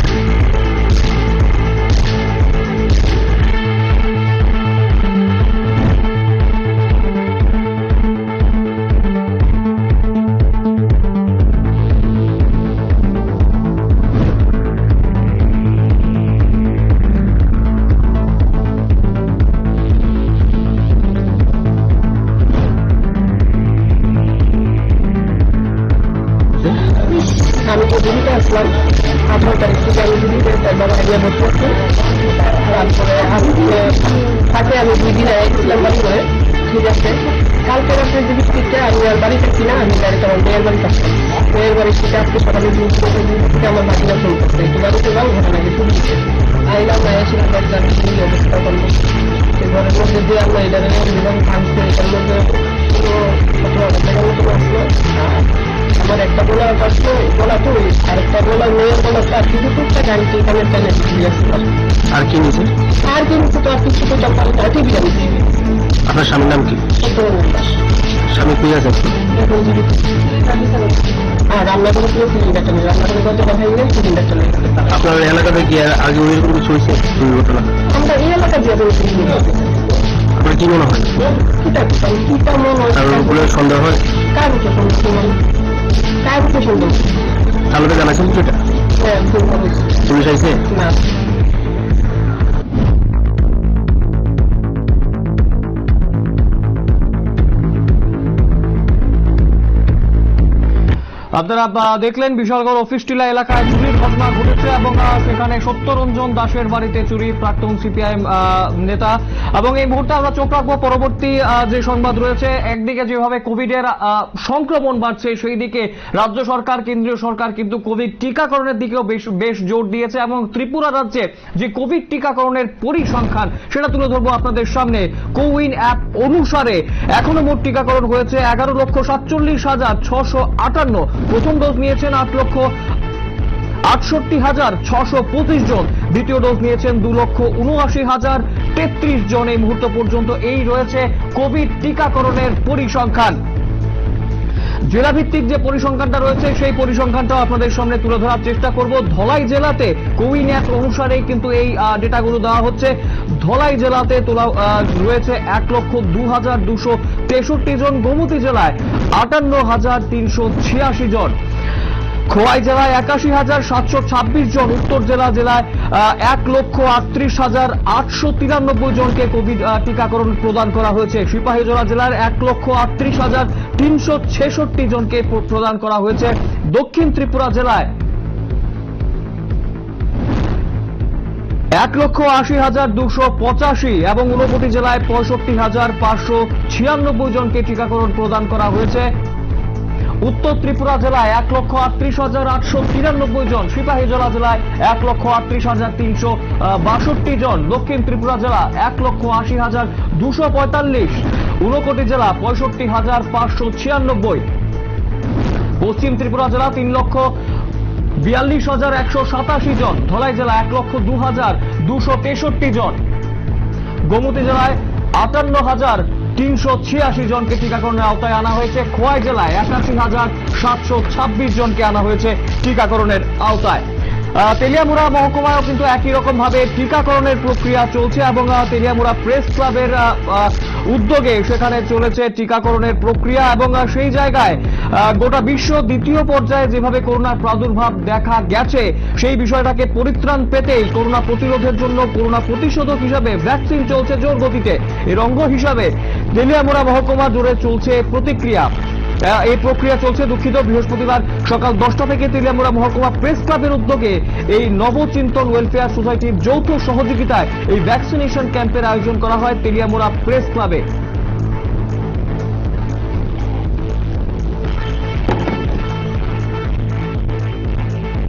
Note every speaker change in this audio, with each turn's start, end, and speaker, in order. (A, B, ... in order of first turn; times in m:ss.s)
0:27.5-1:01.7 A
1:02.1-1:02.7 B
1:03.0-1:05.5 A
1:06.0-1:06.8 B
1:06.9-1:07.8 A
1:08.3-1:09.2 B
1:09.2-1:15.2 A
1:14.9-1:17.7 B
1:17.9-1:20.0 A
1:20.4-1:21.1 B
1:21.2-1:23.5 A
1:22.9-1:24.0 B
1:24.3-1:25.4 A
1:26.2-1:27.1 A
1:27.7-1:28.6 B
1:29.0-1:30.0 A
1:30.0-1:30.6 B
1:30.6-1:31.0 A
1:41.3-2:12.7 C
2:13.9-2:23.4 C
2:24.8-2:41.3 C
2:42.3-2:57.9 C
3:01.7-3:09.1 C
3:10.2-3:24.4 C
3:25.8-3:27.3 C
3:28.2-3:33.0 C
3:34.0-3:43.8 C
3:44.4-4:20.8 C